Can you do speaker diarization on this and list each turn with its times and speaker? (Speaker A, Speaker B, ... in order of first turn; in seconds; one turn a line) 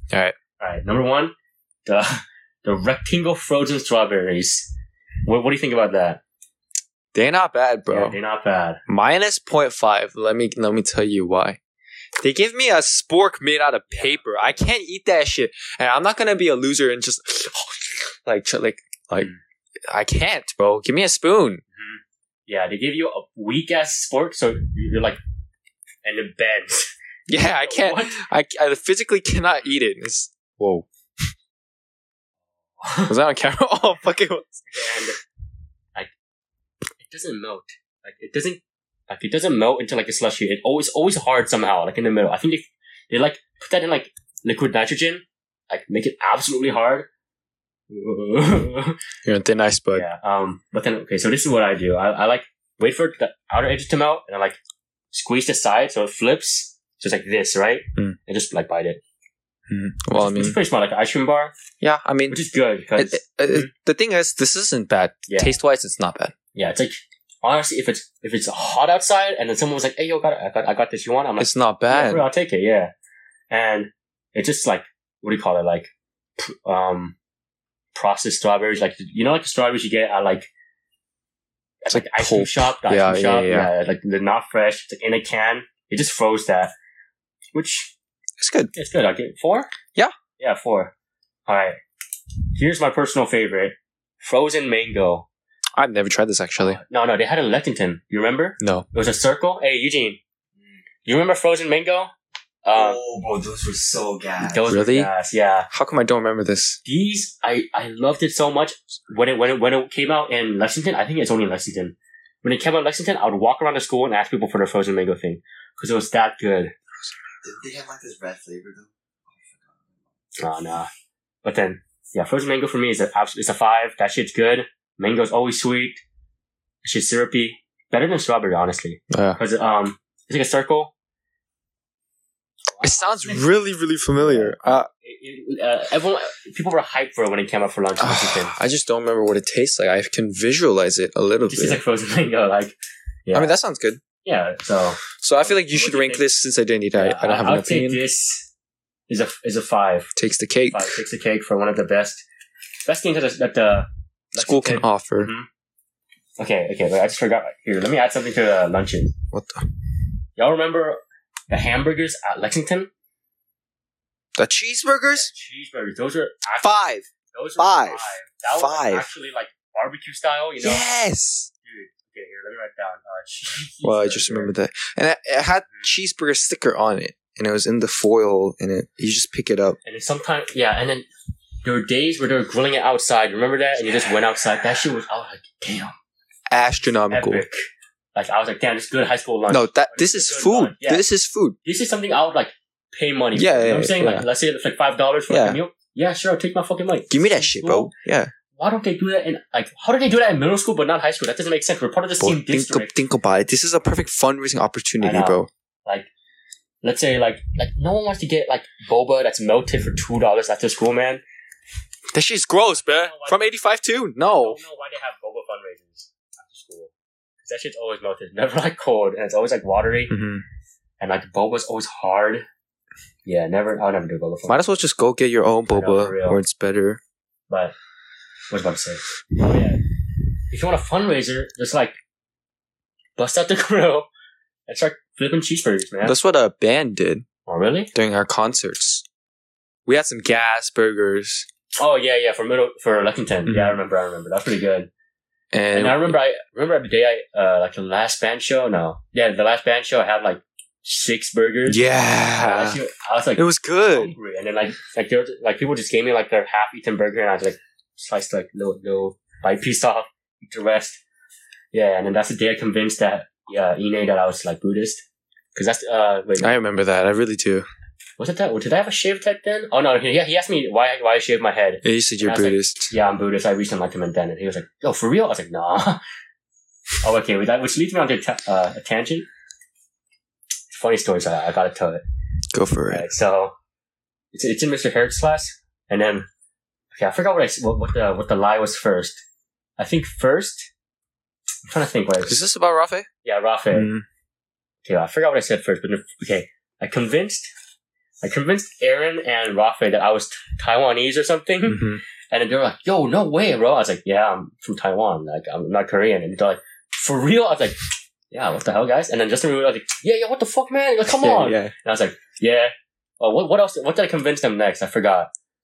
Speaker A: 0.1-0.3
Speaker B: 0.6-1.3
Speaker B: 1.9-4.7
Speaker B: 5.2-6.2
Speaker A: 7.1-8.2
Speaker B: 7.9-8.8
Speaker A: 8.9-11.6
Speaker A: 12.2-19.3
Speaker B: 13.9-14.6
Speaker A: 19.9-21.6
Speaker B: 21.7-25.2
Speaker B: 26.0-26.9
Speaker A: 27.3-30.9
Speaker B: 27.4-28.2
Speaker B: 32.8-33.1
Speaker A: 33.1-34.6
Speaker B: 34.7-35.2
Speaker B: 37.0-47.1
Speaker B: 47.9-49.0
Speaker A: 49.2-50.0
Speaker B: 49.9-54.6
Speaker B: 55.1-59.0
Speaker A: 59.7-60.6
Speaker B: 60.1-61.5
Speaker A: 61.8-62.4
Speaker B: 62.3-63.7
Speaker A: 63.0-66.3
Speaker B: 65.3-65.6
Speaker B: 66.5-72.9
Speaker A: 71.4-72.2
Speaker B: 73.5-77.1
Speaker B: 77.9-80.5
Speaker B: 81.8-86.7
Speaker A: 81.9-83.7
Speaker B: 87.5-87.9
Speaker A: 88.4-88.7
Speaker B: 88.7-89.7
Speaker B: 90.4-90.9
Speaker B: 91.5-91.8
Speaker B: 92.5-95.3
Speaker A: 95.7-96.8
Speaker B: 96.6-100.2
Speaker A: 98.6-98.9
Speaker B: 101.0-102.1
Speaker B: 102.6-103.0
Speaker C: 102.7-104.7
Speaker B: 104.4-105.7
Speaker A: 104.7-105.1
Speaker A: 105.7-106.8
Speaker B: 106.8-116.7
Speaker C: 117.4-120.1
Speaker B: 120.4-120.9
Speaker B: 121.4-126.0
Speaker B: 126.8-130.9
Speaker A: 129.1-129.4
Speaker B: 132.7-133.5
Speaker A: 132.8-134.9
Speaker B: 134.2-138.5
Speaker A: 138.0-141.8
Speaker B: 141.5-143.5
Speaker A: 143.3-144.0
Speaker B: 144.2-146.2
Speaker A: 145.2-148.0
Speaker B: 146.9-148.5
Speaker B: 149.1-150.1
Speaker A: 150.2-151.0
Speaker B: 150.7-152.2
Speaker B: 152.8-155.5
Speaker A: 154.3-155.3
Speaker B: 156.4-159.1
Speaker A: 159.3-159.7
Speaker B: 160.4-162.9
Speaker A: 164.4-165.3
Speaker B: 165.1-166.8
Speaker A: 166.6-169.1
Speaker B: 167.3-170.8
Speaker A: 170.6-171.5
Speaker B: 171.6-174.5
Speaker A: 173.8-179.8
Speaker B: 179.8-181.1
Speaker B: 181.6-185.9
Speaker A: 186.5-187.4
Speaker B: 187.1-187.6
Speaker B: 188.1-191.1
Speaker A: 189.5-191.6
Speaker B: 191.6-197.9
Speaker A: 193.3-194.3
Speaker A: 195.3-195.6
Speaker A: 197.1-198.3
Speaker B: 198.6-202.9
Speaker A: 202.2-205.5
Speaker B: 205.0-206.1
Speaker B: 206.8-211.2
Speaker A: 212.1-214.6
Speaker B: 212.9-213.5
Speaker B: 214.2-216.9
Speaker B: 217.4-220.1
Speaker A: 220.1-220.4
Speaker B: 221.0-222.4
Speaker B: 223.2-224.7
Speaker A: 224.5-227.0
Speaker B: 225.7-226.4
Speaker B: 227.5-227.7
Speaker B: 228.5-229.8
Speaker B: 230.5-232.0
Speaker B: 233.2-234.1
Speaker B: 234.7-236.2
Speaker A: 236.0-237.2
Speaker B: 237.5-237.9
Speaker A: 237.9-239.0
Speaker A: 239.8-241.4
Speaker B: 241.8-244.9
Speaker A: 243.5-243.8
Speaker A: 245.5-246.2
Speaker B: 245.7-251.8
Speaker A: 251.7-252.8
Speaker B: 252.3-261.0
Speaker A: 253.3-254.1
Speaker B: 261.7-265.0
Speaker B: 265.5-266.5
Speaker A: 266.4-267.7
Speaker B: 268.2-276.0
Speaker A: 271.8-272.9
Speaker B: 277.0-279.3
Speaker B: 280.7-282.0
Speaker A: 282.5-283.0
Speaker B: 282.9-283.5
Speaker B: 284.3-286.3
Speaker B: 286.9-289.2
Speaker B: 289.8-290.7
Speaker B: 291.7-292.4
Speaker A: 292.2-293.1
Speaker B: 293.2-293.9
Speaker A: 293.7-294.0
Speaker B: 294.8-297.5
Speaker B: 298.2-307.8
Speaker A: 301.7-302.0
Speaker B: 308.3-315.3
Speaker A: 311.1-311.7